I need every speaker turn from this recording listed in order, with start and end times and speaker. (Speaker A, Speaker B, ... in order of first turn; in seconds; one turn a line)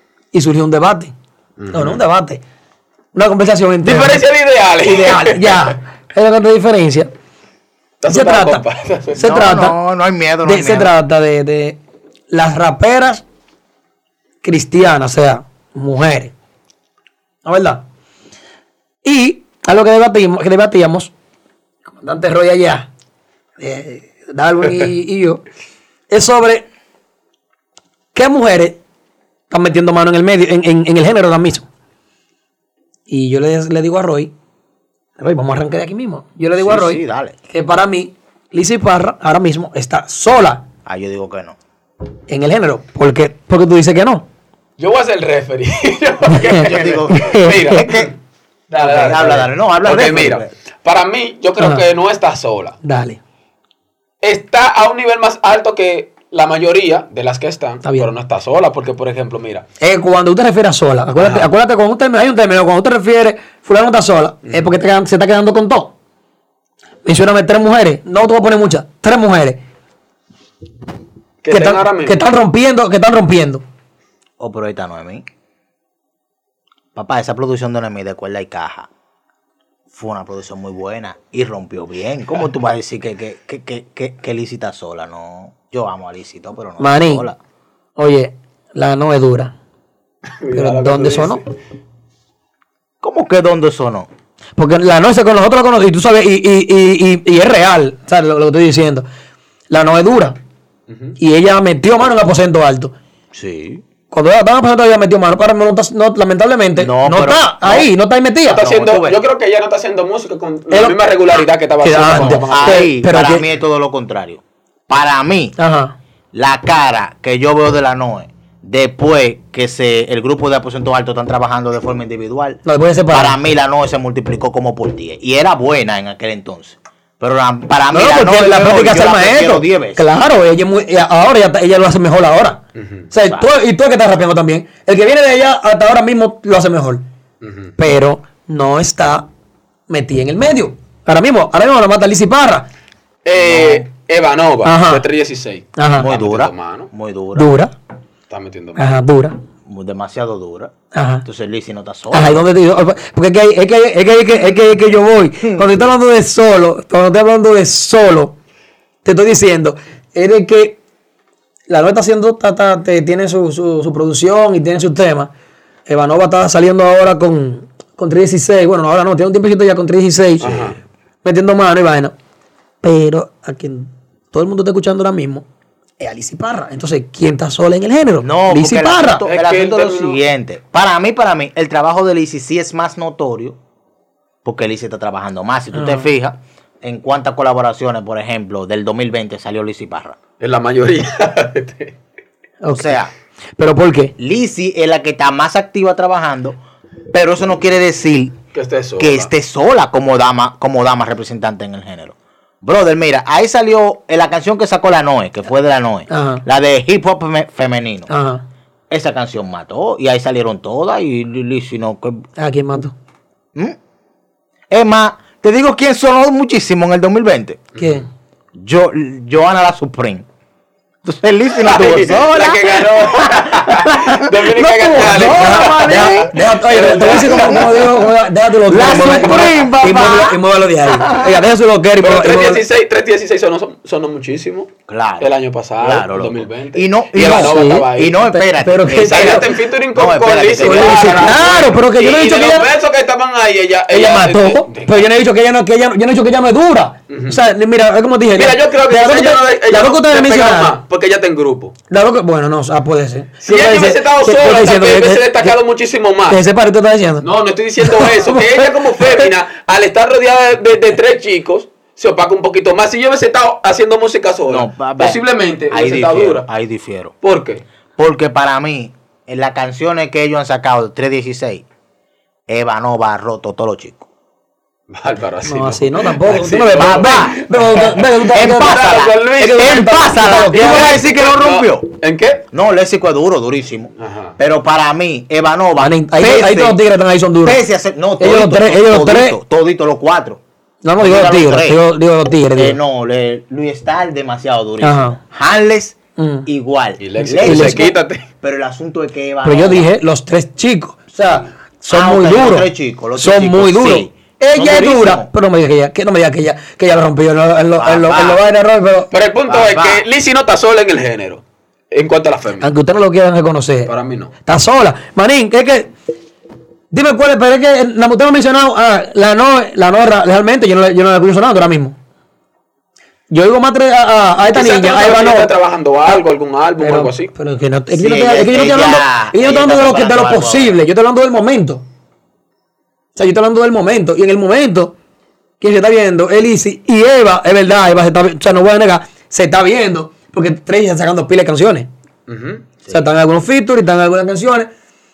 Speaker A: 0.3-1.1
Speaker B: 1.6-2.0
Speaker A: 1.7-2.4
Speaker A: 3.1-4.2
Speaker B: 3.8-5.8
Speaker A: 4.8-7.1
Speaker B: 8.0-9.2
Speaker A: 8.1-8.6
Speaker A: 9.2-9.8
Speaker C: 9.2-10.9
Speaker A: 10.4-11.8
Speaker A: 12.3-13.2
Speaker A: 14.4-16.3
Speaker A: 17.5-17.8
Speaker A: 19.0-21.1
Speaker A: 21.9-22.9
Speaker A: 23.6-25.4
Speaker A: 26.1-26.7
Speaker A: 28.1-28.8
Speaker A: 29.5-31.7
Speaker A: 33.1-34.3
Speaker A: 35.2-40.6
Speaker C: 36.6-37.4
Speaker C: 40.9-41.6
Speaker A: 42.3-44.2
Speaker B: 44.8-48.1
Speaker A: 46.5-47.8
Speaker C: 46.5-48.1
Speaker B: 48.7-52.8
Speaker C: 48.8-50.5
Speaker A: 51.6-51.8
Speaker A: 52.8-53.2
Speaker B: 54.2-59.6
Speaker A: 57.8-58.1
Speaker A: 59.8-65.9
Speaker B: 61.2-61.5
Speaker A: 67.0-69.6
Speaker B: 71.4-72.2
Speaker A: 71.5-73.6
Speaker C: 74.4-75.2
Speaker C: 77.0-78.9
Speaker C: 79.9-87.4
Speaker A: 86.8-87.3
Speaker A: 88.0-89.5
Speaker B: 90.3-91.5
Speaker A: 90.5-91.4
Speaker C: 93.0-94.1
Speaker A: 94.6-99.1
Speaker A: 99.7-100.4
Speaker B: 100.9-101.2
Speaker A: 101.2-102.9
Speaker C: 103.3-103.8
Speaker A: 104.1-108.6
Speaker C: 106.8-107.9
Speaker B: 108.5-112.9
Speaker C: 108.6-109.2
Speaker A: 110.7-111.0
Speaker A: 111.8-113.4
Speaker C: 112.0-115.5
Speaker A: 115.6-116.0
Speaker C: 116.3-130.0
Speaker A: 122.7-123.4
Speaker A: 127.9-132.6
Speaker B: 132.8-133.0
Speaker A: 133.1-137.0
Speaker C: 133.2-133.5
Speaker B: 137.4-137.7
Speaker A: 137.8-139.3
Speaker A: 139.9-142.7
Speaker B: 143.2-146.9
Speaker C: 143.4-143.8
Speaker A: 144.7-145.1
Speaker A: 145.8-146.1
Speaker C: 146.0-147.5
Speaker A: 147.3-147.7
Speaker B: 148.3-149.0
Speaker A: 148.8-149.3
Speaker C: 149.7-150.7
Speaker A: 150.9-151.2
Speaker C: 151.2-152.5
Speaker A: 152.1-158.3
Speaker A: 159.0-160.8
Speaker A: 161.7-165.3
Speaker A: 165.9-170.6
Speaker B: 170.4-170.8
Speaker A: 171.2-172.1
Speaker A: 172.8-175.4
Speaker A: 176.0-179.2
Speaker C: 178.2-183.6
Speaker B: 179.3-180.2
Speaker C: 184.4-190.2
Speaker A: 185.7-186.1
Speaker B: 190.4-191.9
Speaker A: 192.6-193.0
Speaker C: 192.7-193.1
Speaker A: 193.6-194.1
Speaker C: 194.2-196.6
Speaker C: 197.1-198.4
Speaker B: 198.5-199.3
Speaker C: 199.0-208.1
Speaker A: 206.1-206.4
Speaker A: 208.1-208.4
Speaker C: 208.9-212.2
Speaker A: 212.4-212.9
Speaker C: 214.7-217.7
Speaker A: 217.8-218.1
Speaker C: 218.6-220.2
Speaker C: 221.0-227.9
Speaker B: 221.6-227.9
Speaker A: 224.9-232.6
Speaker C: 228.7-231.4
Speaker B: 228.8-229.6
Speaker B: 232.0-234.7
Speaker C: 234.9-241.5
Speaker B: 235.2-238.3
Speaker A: 237.2-239.5
Speaker B: 238.9-245.1
Speaker A: 240.6-242.7
Speaker A: 243.9-250.8
Speaker B: 247.1-247.4
Speaker B: 248.3-251.7
Speaker A: 251.9-255.5
Speaker B: 253.4-256.4
Speaker A: 256.3-257.3
Speaker B: 257.2-266.5
Speaker A: 257.8-259.3
Speaker C: 264.5-267.1
Speaker B: 267.2-267.6
Speaker C: 268.0-271.6
Speaker C: 272.5-274.1
Speaker B: 274.9-282.4
Speaker A: 275.4-281.0
Speaker C: 276.3-281.9
Speaker C: 282.5-286.8
Speaker B: 284.0-284.4
Speaker A: 285.8-287.6
Speaker C: 287.4-290.4
Speaker A: 288.2-289.4
Speaker A: 290.8-292.8
Speaker C: 291.0-291.8
Speaker C: 292.6-299.9
Speaker A: 294.8-295.2
Speaker A: 296.2-296.5
Speaker B: 297.0-298.3
Speaker A: 297.4-297.9
Speaker A: 299.4-309.1
Speaker C: 301.2-305.3
Speaker C: 307.8-308.4
Speaker B: 309.1-312.7
Speaker C: 309.5-310.0
Speaker A: 312.6-313.9
Speaker B: 313.9-314.3
Speaker A: 314.4-315.9
Speaker A: 316.9-322.0
Speaker A: 323.3-325.5
Speaker B: 324.5-327.3
Speaker A: 326.8-331.8
Speaker C: 327.9-330.8
Speaker A: 333.2-334.9
Speaker A: 335.6-341.9
Speaker B: 342.3-342.6
Speaker A: 342.9-344.7